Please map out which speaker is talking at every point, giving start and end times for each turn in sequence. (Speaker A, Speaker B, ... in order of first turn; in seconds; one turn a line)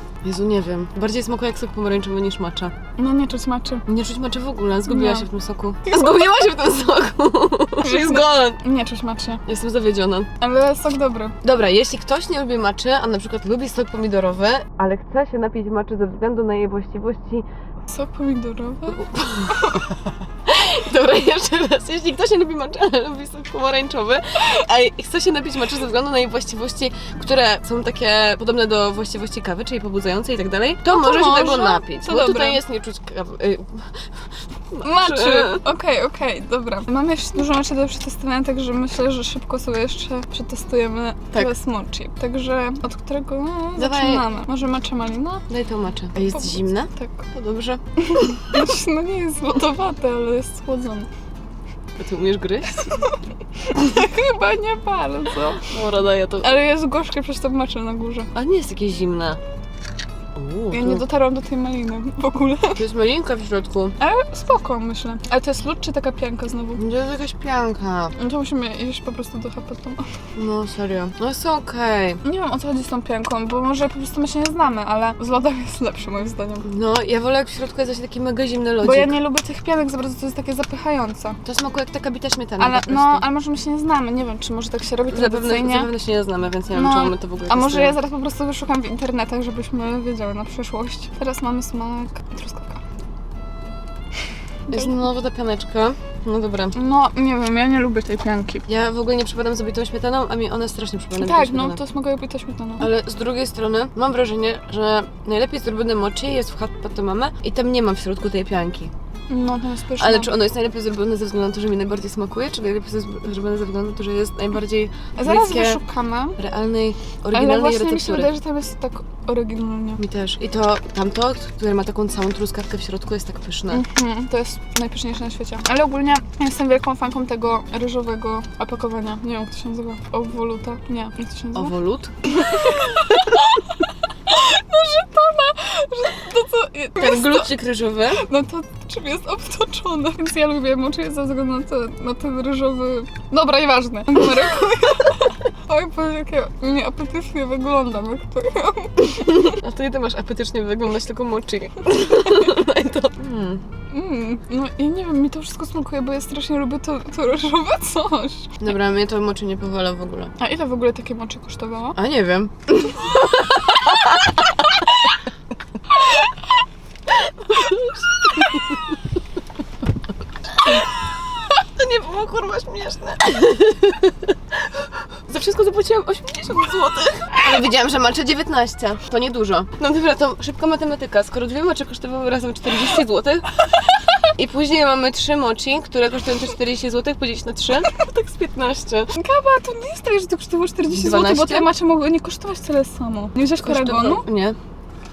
Speaker A: 0.2-2.7
Speaker B: 3.0-3.8
Speaker A: 3.9-8.6
Speaker B: 4.9-5.3
Speaker B: 5.9-6.2
Speaker B: 7.8-9.4
Speaker A: 9.4-10.3
Speaker B: 10.4-11.3
Speaker A: 11.4-17.4
Speaker B: 17.9-19.8
Speaker A: 18.9-19.9
Speaker A: 20.4-34.1
Speaker B: 30.9-32.6
Speaker A: 34.7-35.6
Speaker B: 34.8-45.4
Speaker A: 43.8-44.2
Speaker A: 45.5-48.6
Speaker B: 46.2-47.1
Speaker B: 48.1-51.1
Speaker A: 52.0-53.0
Speaker B: 52.7-55.7
Speaker A: 55.7-56.5
Speaker B: 56.4-58.3
Speaker A: 58.3-59.4
Speaker A: 60.4-61.0
Speaker B: 60.7-62.8
Speaker A: 62.7-63.9
Speaker B: 64.0-66.8
Speaker A: 66.8-68.1
Speaker B: 68.2-70.0
Speaker A: 70.3-72.2
Speaker B: 72.2-76.6
Speaker A: 76.6-79.1
Speaker B: 78.8-81.4
Speaker A: 81.4-83.2
Speaker B: 82.6-85.9
Speaker A: 85.1-87.9
Speaker B: 86.7-92.8
Speaker A: 94.7-96.7
Speaker B: 96.7-98.7
Speaker A: 98.7-101.8
Speaker B: 101.2-102.9
Speaker A: 102.8-108.9
Speaker B: 109.3-110.3
Speaker A: 110.0-115.8
Speaker B: 115.2-116.4
Speaker A: 116.3-118.3
Speaker B: 117.3-120.0
Speaker A: 120.0-123.8
Speaker B: 123.7-131.7
Speaker A: 131.5-133.4
Speaker B: 132.2-133.8
Speaker B: 134.3-137.5
Speaker A: 137.0-138.2
Speaker B: 138.2-149.5
Speaker A: 149.2-153.6
Speaker B: 153.9-158.6
Speaker A: 158.6-160.3
Speaker B: 160.4-161.9
Speaker A: 161.9-164.8
Speaker B: 163.3-164.0
Speaker A: 167.2-168.8
Speaker A: 170.5-170.9
Speaker A: 171.5-183.6
Speaker A: 184.3-189.1
Speaker B: 189.1-194.2
Speaker A: 190.9-191.7
Speaker A: 193.6-194.6